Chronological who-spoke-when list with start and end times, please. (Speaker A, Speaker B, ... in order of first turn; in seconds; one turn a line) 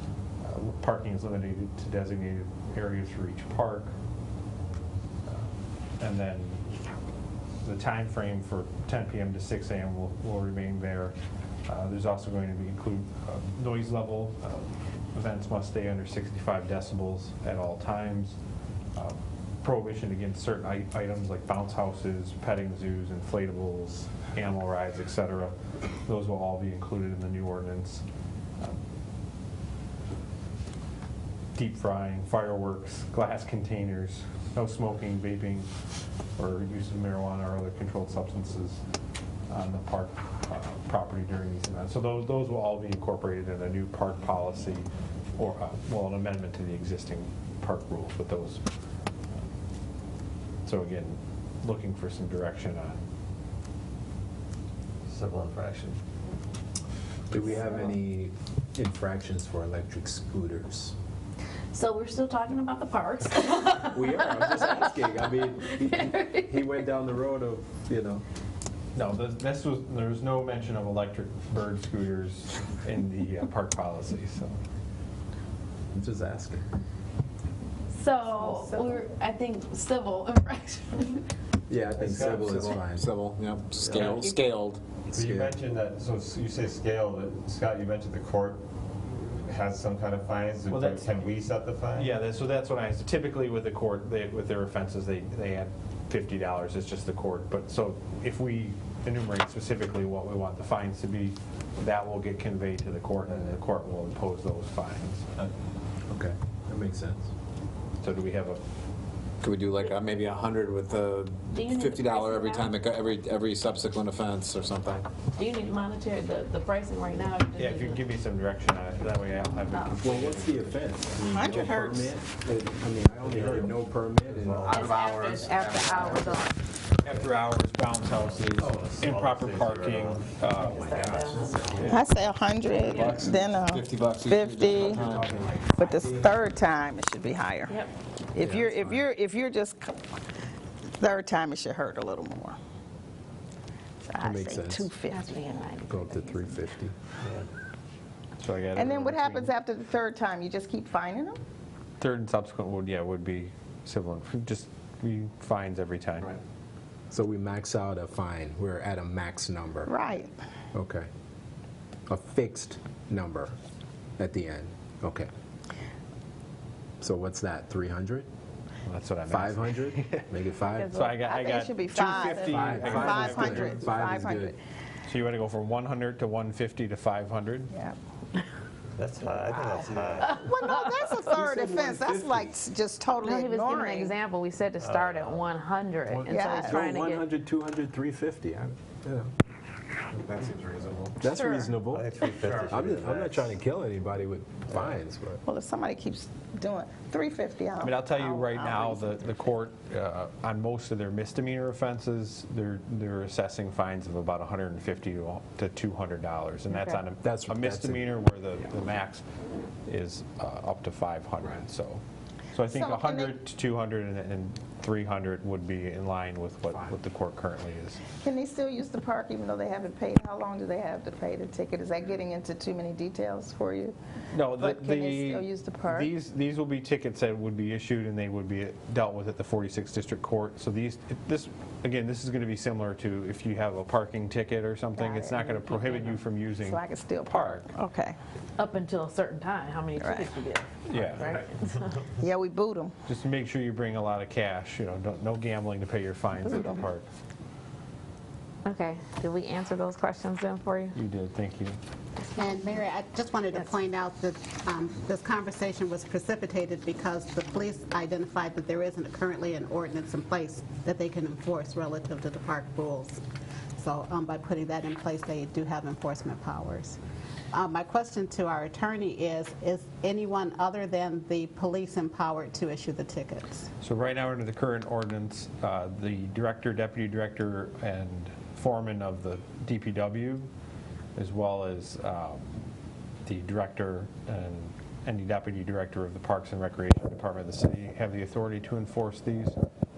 Speaker A: 0.4-4.0
Speaker A: 5.3-6.7
Speaker A: 7.6-11.2
Speaker A: 11.7-18.4
Speaker A: 18.9-28.1
Speaker A: 31.6-35.7
Speaker A: 36.4-38.8
Speaker A: 39.5-48.6
Speaker A: 50.6-53.0
Speaker B: 55.1-56.0
Speaker C: 57.3-61.0
Speaker D: 61.7-66.7
Speaker C: 63.9-68.2
Speaker A: 69.0-74.6
Speaker C: 75.9-76.6
Speaker D: 77.9-81.2
Speaker E: 78.2-79.0
Speaker C: 81.7-83.1
Speaker B: 81.9-82.5
Speaker F: 82.5-84.8
Speaker B: 83.8-84.3
Speaker D: 84.0-84.4
Speaker C: 85.1-85.6
Speaker B: 85.1-88.6
Speaker B: 89.4-92.1
Speaker A: 90.7-91.1
Speaker A: 91.9-105.3
Speaker C: 106.1-107.3
Speaker A: 108.0-108.6
Speaker F: 109.4-115.1
Speaker D: 111.5-112.8
Speaker D: 115.3-118.0
Speaker A: 117.6-121.4
Speaker C: 120.0-124.8
Speaker E: 121.2-122.1
Speaker B: 123.2-123.8
Speaker B: 124.3-125.3
Speaker F: 124.7-126.0
Speaker D: 124.7-126.5
Speaker E: 124.8-126.5
Speaker A: 127.0-132.0
Speaker B: 128.2-130.0
Speaker G: 128.6-130.2
Speaker D: 130.5-132.0
Speaker C: 131.5-131.9
Speaker E: 131.8-135.1
Speaker D: 132.8-133.2
Speaker F: 132.8-135.5
Speaker C: 134.9-136.4
Speaker E: 135.7-137.8
Speaker E: 138.3-140.0
Speaker C: 138.4-139.1
Speaker E: 141.0-142.6
Speaker E: 144.1-145.5
Speaker C: 144.2-144.9
Speaker D: 145.1-146.6
Speaker C: 145.9-146.9
Speaker A: 148.4-149.5
Speaker E: 148.7-151.4
Speaker A: 152.0-156.3
Speaker C: 157.1-159.9
Speaker E: 159.9-160.3
Speaker C: 160.7-161.1
Speaker C: 162.1-163.6
Speaker C: 164.2-165.3
Speaker C: 167.0-168.3
Speaker A: 168.9-170.3
Speaker C: 169.3-171.1
Speaker D: 170.7-171.1
Speaker A: 170.9-173.8
Speaker E: 171.1-174.6
Speaker C: 172.4-174.5
Speaker A: 175.1-177.7
Speaker G: 179.0-180.4
Speaker B: 179.2-180.3
Speaker E: 180.3-184.2
Speaker D: 180.7-181.0
Speaker C: 181.3-182.5
Speaker D: 183.2-187.3
Speaker B: 184.8-185.3
Speaker C: 186.1-189.3
Speaker E: 186.3-186.8
Speaker C: 191.2-195.4
Speaker B: 191.9-192.3
Speaker G: 192.0-193.3
Speaker B: 192.8-193.2
Speaker E: 195.4-199.2
Speaker A: 197.8-209.2
Speaker D: 206.7-207.0
Speaker C: 207.2-208.1
Speaker A: 209.9-212.0
Speaker A: 212.5-218.0
Speaker E: 212.7-213.4
Speaker E: 218.2-223.9
Speaker A: 224.3-237.7
Speaker E: 224.5-226.1
Speaker D: 235.0-236.2
Speaker E: 236.6-238.2
Speaker D: 238.6-242.0
Speaker E: 240.0-240.3
Speaker A: 240.9-241.4
Speaker E: 242.2-242.9
Speaker A: 243.1-247.1
Speaker E: 246.4-246.8
Speaker D: 248.7-250.9
Speaker A: 250.9-251.8
Speaker H: 252.4-263.2
Speaker H: 263.8-267.0
Speaker H: 267.5-273.7
Speaker A: 273.8-280.5
Speaker A: 281.2-282.5
Speaker A: 283.2-289.6